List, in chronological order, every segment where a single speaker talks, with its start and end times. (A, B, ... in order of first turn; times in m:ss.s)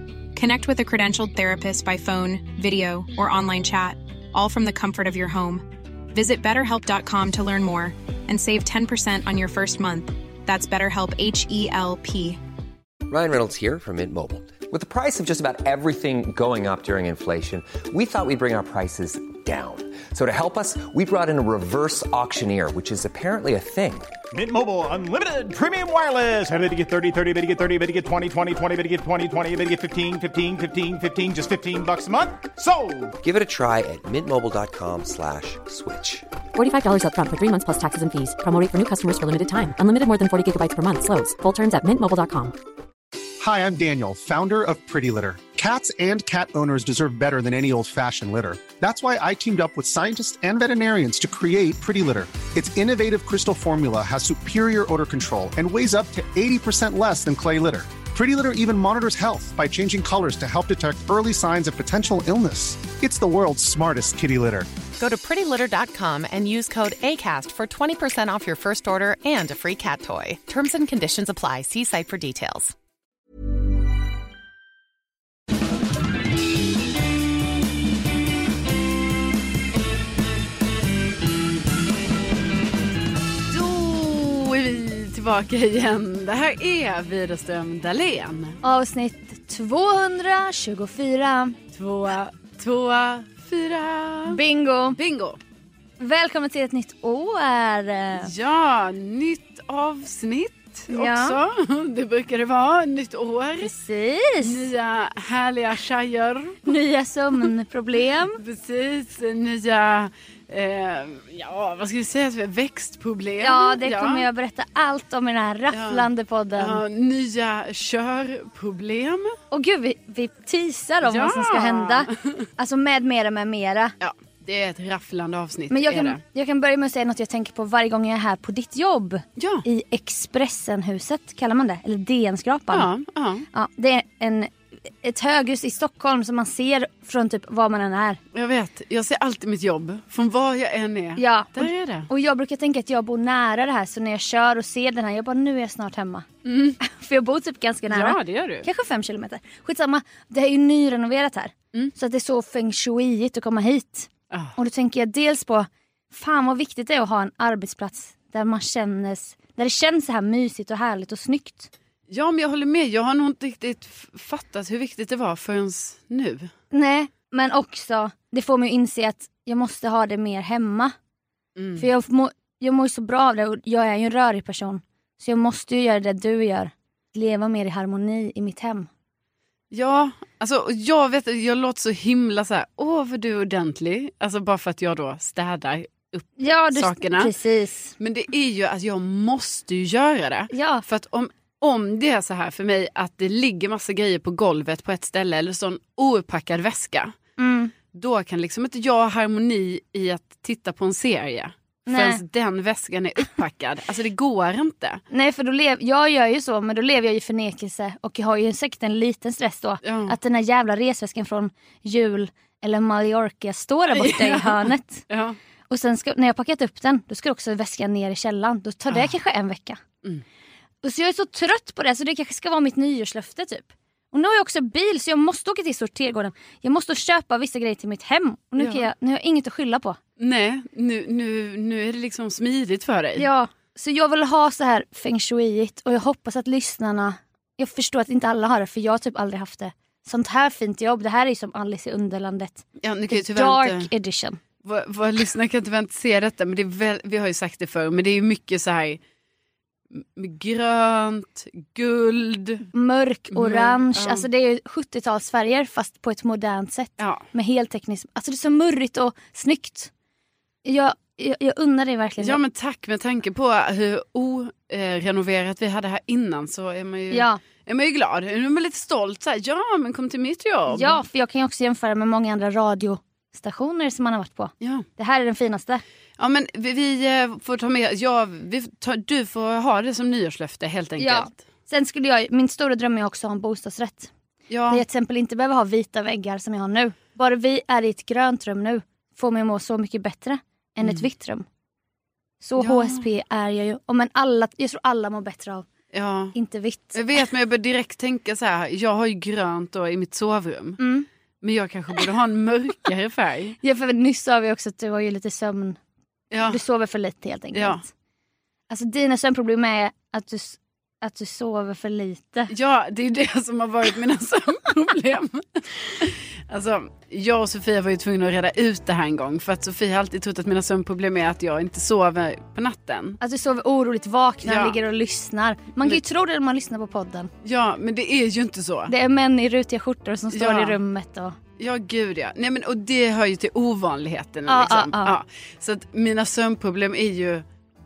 0:00.3-0:12.4 A
0:13.1-0:24.1 B
0:24.3-0:33.2 C
0:33.2-0:36.2 B
0:36.5-0:42.6 D
0:43.4-1:04.7 E
1:05.0-1:12.7 F
1:23.5-1:28.6 G
1:28.6-1:31.6 H
1:31.7-1:34.4 G
1:34.3-1:35.0 H
1:35.0-1:35.4 G
1:36.0-1:38.3 H
1:38.2-1:43.7 G
1:40.9-1:41.4 H
1:43.6-1:44.7 H
1:44.4-1:46.6 G
1:46.6-1:48.4 H
1:48.4-1:54.3 G
1:53.4-1:56.8 H
1:55.7-1:59.4 G
1:59.5-2:03.9 H
2:01.0-2:02.5 G
2:04.0-2:06.2 G
2:05.7-2:12.9 H
2:09.4-2:09.6 G
2:12.7-2:13.4 G
2:13.5-2:18.2 H
2:18.3-2:22.1 G
2:21.2-2:26.3 H
2:26.4-2:26.8 G
2:26.8-2:41.7 H
2:27.9-2:28.7 G
2:34.3-2:34.5 G
2:42.1-2:46.5 G
2:46.7-2:50.9 H
2:51.6-2:51.9 G
2:51.8-2:58.9 H
2:59.7-3:07.3 G
3:06.4-3:07.9 H
3:08.0-3:17.1 G
3:10.5-3:10.8 H
3:17.4-3:17.7 H
3:17.9-3:25.0 G
3:21.8-3:22.2 H
3:25.1-3:35.0 H
3:29.8-3:30.2 G
3:33.9-3:35.4 G
3:35.7-3:39.8 H
3:40.8-3:50.0 H
3:48.6-3:48.9 G
3:50.2-3:53.2 G
3:53.2-4:04.4 H
4:02.8-4:03.9 G
4:04.6-4:09.0 G
4:10.0-4:12.6 G
4:12.7-4:19.9 H
4:13.3-4:14.2 G
4:17.0-4:17.2 G
4:20.6-4:22.4 H
4:22.2-4:31.0 G
4:27.1-4:27.4 H
4:30.7-4:35.8 H
4:34.6-4:34.8 G
4:36.2-4:41.4 G
4:41.0-4:44.1 H
4:44.5-4:44.8 G
4:44.7-4:51.4 H
4:52.4-4:55.7 H
4:52.6-4:53.0 G
4:55.9-4:56.3 G
4:56.3-4:57.0 H
4:56.9-5:00.8 G
5:00.8-5:01.1 H
5:01.4-5:03.6 G
5:03.6-5:05.8 H
5:06.3-5:06.6 G
5:06.4-5:07.9 H
5:07.5-5:07.8 G
5:08.7-5:12.5 H
5:12.5-5:23.2 G
5:23.2-5:27.3 H
5:24.4-5:24.8 G
5:27.4-5:28.9 G
5:28.9-5:31.3 H
5:30.3-5:30.8 G
5:31.6-5:37.4 G
5:34.5-5:35.1 H